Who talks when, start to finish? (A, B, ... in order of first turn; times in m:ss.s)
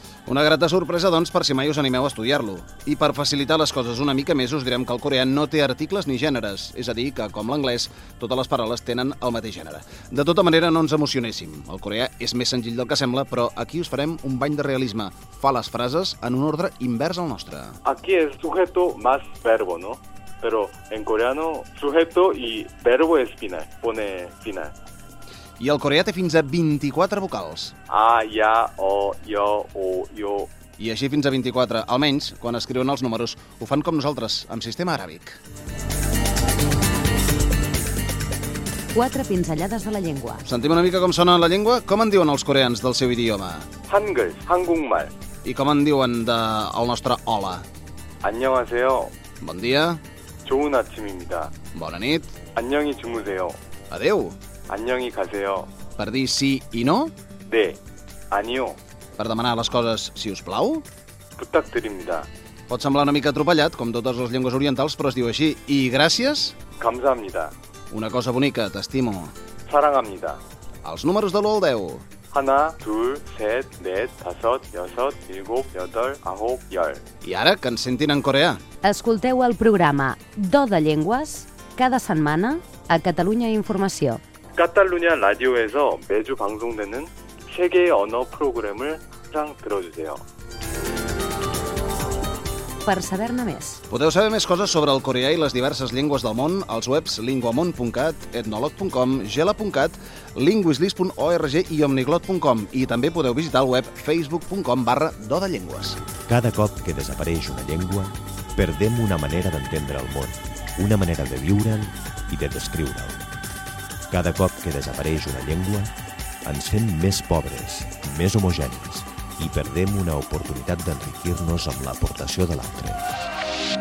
0:00.3-0:17.8 A
0:17.8-0:24.7 B
0:25.6-0:27.7 A
0:27.9-0:30.5 B
0:30.8-0:35.4 A
0:38.9-0:40.4 C
0:40.4-0:43.7 A
0:43.9-0:45.1 B
0:45.4-0:47.6 A
0:48.2-0:49.1 B
0:49.4-0:50.0 A
0:50.4-0:51.5 B
0:51.7-0:52.3 A
0:52.6-0:53.6 B
0:53.9-0:54.4 A
0:54.7-0:55.7 B
0:56.0-0:57.1 A
0:57.5-0:57.8 B
0:58.3-0:58.8 B
0:59.2-1:00.8 A
1:01.4-1:02.3 B
1:02.7-1:06.6 A
1:06.8-1:07.5 B
1:07.9-1:09.3 A
1:09.7-1:10.4 B
1:10.8-1:12.0 A
1:12.3-1:17.0 B
1:17.2-1:18.6 A
1:18.8-1:24.2 C
1:24.6-1:30.2 B
1:32.8-1:33.8 C
1:33.9-1:46.0 A
1:46.3-1:53.2 D
1:54.1-1:55.9 D
1:56.4-2:03.0 D